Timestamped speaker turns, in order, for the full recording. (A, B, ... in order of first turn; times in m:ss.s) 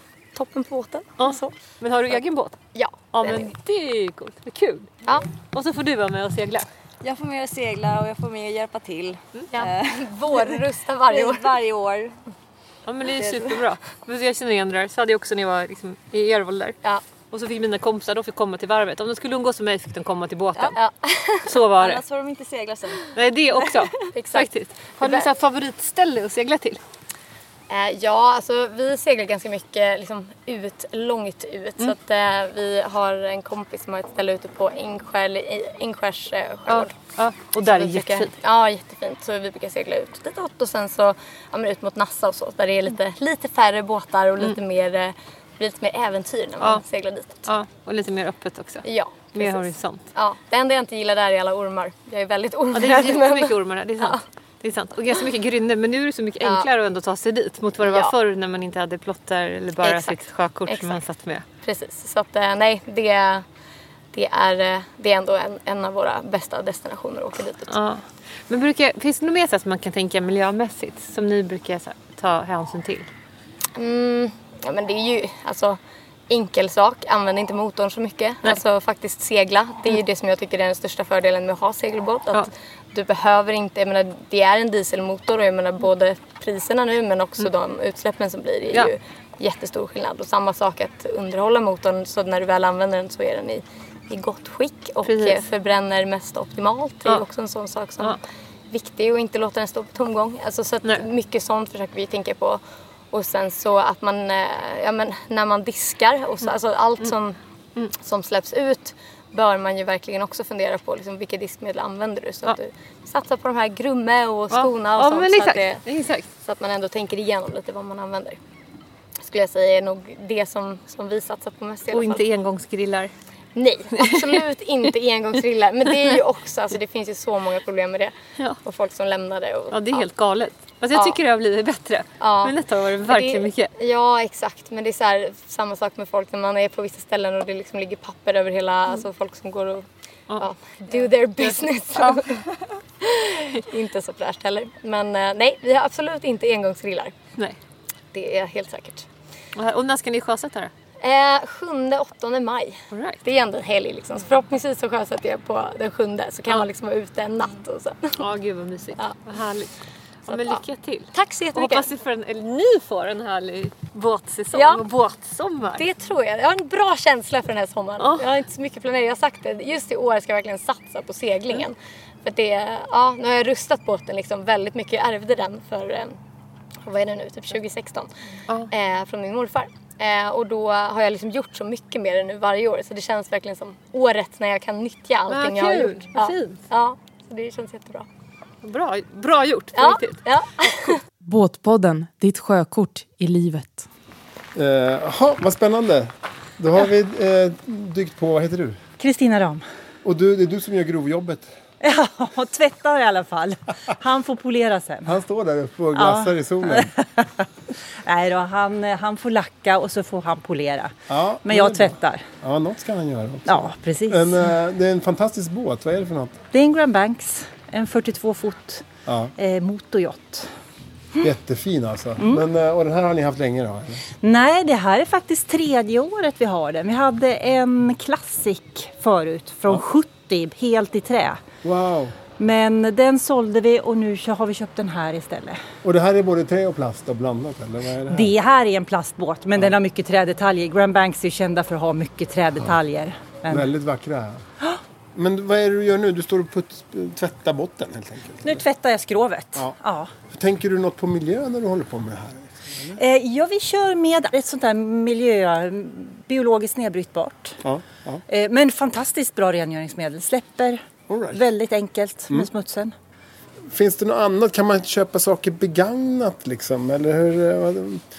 0:00.3-0:01.4 A
0:01.2-0:02.6 B
0:02.7-0:03.5 A
0:03.1-0:04.9 B
0:05.5-0:06.7 B
0:07.0-0:09.8 C
0:09.5-0:11.6 A
0:11.1-0:12.1 C
0:12.9-0:16.8 B
0:17.3-0:20.8 B
0:20.7-0:21.6 A
0:21.4-0:22.0 B
0:22.1-0:23.0 C
0:23.1-0:26.8 B
0:24.1-0:25.3 A
0:27.7-0:36.9 A
0:36.7-0:38.3 B
0:37.6-0:47.4 A
0:47.4-0:50.0 B
0:48.8-0:54.2 A
0:52.7-1:01.4 B
0:56.4-0:56.7 A
0:57.8-0:58.1 A
0:59.8-1:01.0 A
1:01.6-1:03.4 A
1:04.1-1:07.8 A
1:07.7-1:13.1 B
1:13.8-1:38.2 A
1:35.0-1:35.4 B
1:38.7-1:42.6 A
1:43.1-1:47.4 A
1:47.9-1:55.8 A
1:54.5-1:56.2 B
1:56.4-1:58.4 A
1:59.2-2:02.2 A
2:01.9-2:03.1 B
2:03.5-2:10.1 A
2:03.9-2:04.4 B
2:09.7-2:13.7 B
2:10.9-2:11.2 A
2:12.2-2:19.8 A
2:20.3-2:22.2 B
2:20.4-2:27.1 A
2:28.1-2:29.0 A
2:29.6-2:30.7 B
2:31.0-2:38.2 A
2:32.9-2:33.2 B
2:38.2-2:39.7 B
2:40.3-2:41.9 A
2:40.3-2:45.8 B
2:44.5-2:44.8 A
2:45.7-2:56.2 A
2:48.0-2:48.3 B
2:56.8-2:58.1 A
2:58.7-3:08.1 A
3:05.3-3:06.6 B
3:08.6-3:10.2 B
3:09.8-3:11.0 A
3:11.2-3:13.9 D
3:14.5-3:18.8 E
3:19.0-3:19.6 F
3:20.0-3:21.5 E
3:21.8-3:25.2 F
3:25.0-3:26.9 E
3:25.9-3:27.4 F
3:28.0-3:32.2 F
3:31.1-3:36.4 E
3:33.4-3:34.5 F
3:36.5-3:40.5 F
3:39.1-3:39.3 E
3:41.2-3:44.0 E
3:42.2-3:42.4 F
3:44.2-3:51.4 F
3:51.6-3:52.2 E
3:52.3-3:55.6 F
3:55.8-3:58.3 E
3:58.0-4:03.7 F
4:03.4-4:04.4 E
4:05.1-4:08.6 E
4:08.4-4:10.1 F
4:10.3-4:13.0 E
4:12.9-4:17.6 F
4:17.6-4:18.2 E
4:18.3-4:22.9 F
4:21.1-4:21.5 E
4:23.7-4:28.0 E